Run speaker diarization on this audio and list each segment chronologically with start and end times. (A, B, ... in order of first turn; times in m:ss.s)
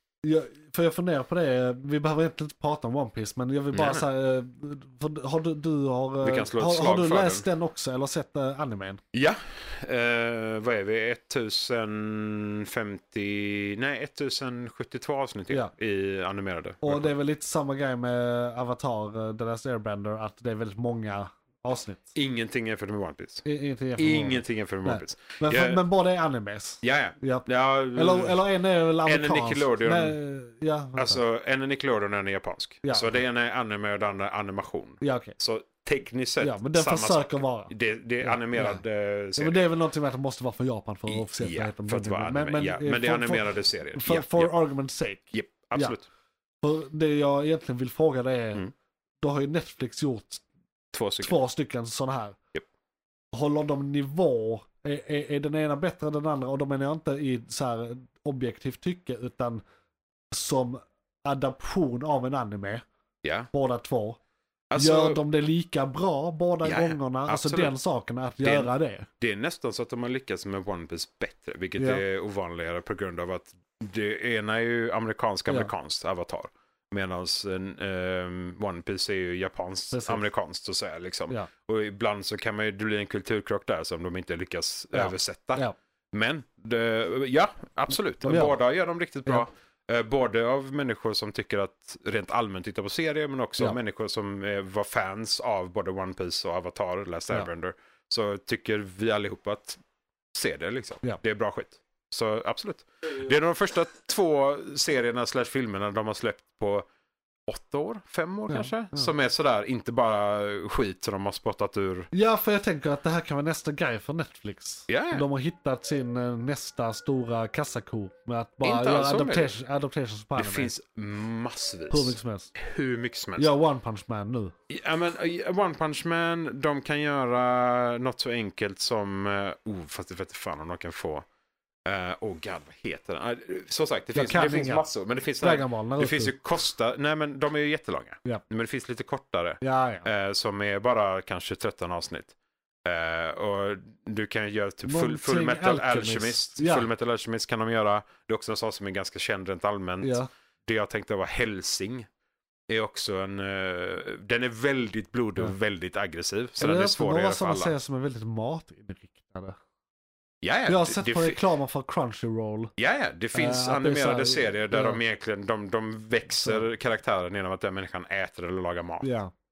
0:00.2-0:09.0 A
0:03.7-0:04.0 B
0:06.2-0:07.4 B
0:09.1-0:17.1 B
0:16.8-0:22.1 A
0:22.1-0:23.4 B
0:23.4-0:31.2 A
0:24.0-0:25.8 B
0:26.8-0:28.4 B
0:29.0-0:30.2 B
0:31.0-0:39.6 B
0:32.8-0:33.2 A
0:35.0-0:35.4 A
0:36.4-0:37.7 A
0:38.2-0:38.8 A
0:39.4-0:46.0 A
0:41.1-0:44.5 B
0:45.3-0:46.0 B
0:46.6-0:48.6 A
0:49.2-0:50.4 A
0:50.9-0:51.4 B
0:51.2-0:52.4 A
0:53.3-0:59.6 A
1:00.3-1:02.8 A
1:03.2-1:03.5 B
1:03.5-1:04.2 A
1:04.7-1:05.2 B
1:04.7-1:09.1 A
1:06.6-1:07.7 B
1:08.4-1:39.8 B
1:11.8-1:12.0 A
1:19.9-1:20.2 A
1:24.9-1:25.7 A
1:28.2-1:28.5 A
1:40.3-1:46.8 B
1:47.5-1:52.1 B
1:48.5-1:49.1 A
1:52.1-2:00.7 A
1:54.9-1:55.2 B
1:58.6-1:59.5 B
2:00.4-2:03.5 B
2:01.9-2:02.5 A
2:03.4-2:04.5 A
2:04.7-2:11.2 B
2:11.8-2:22.3 B
2:14.1-2:14.8 A
2:15.4-2:16.3 A
2:19.6-2:20.1 A
2:22.8-2:32.1 B
2:24.8-2:26.9 A
2:30.0-2:30.3 A
2:32.7-2:37.7 B
2:36.6-2:39.6 A
2:40.4-2:41.4 B
2:40.6-2:42.7 A
2:42.8-2:49.1 B
2:43.3-2:45.0 A
2:49.0-2:49.3 A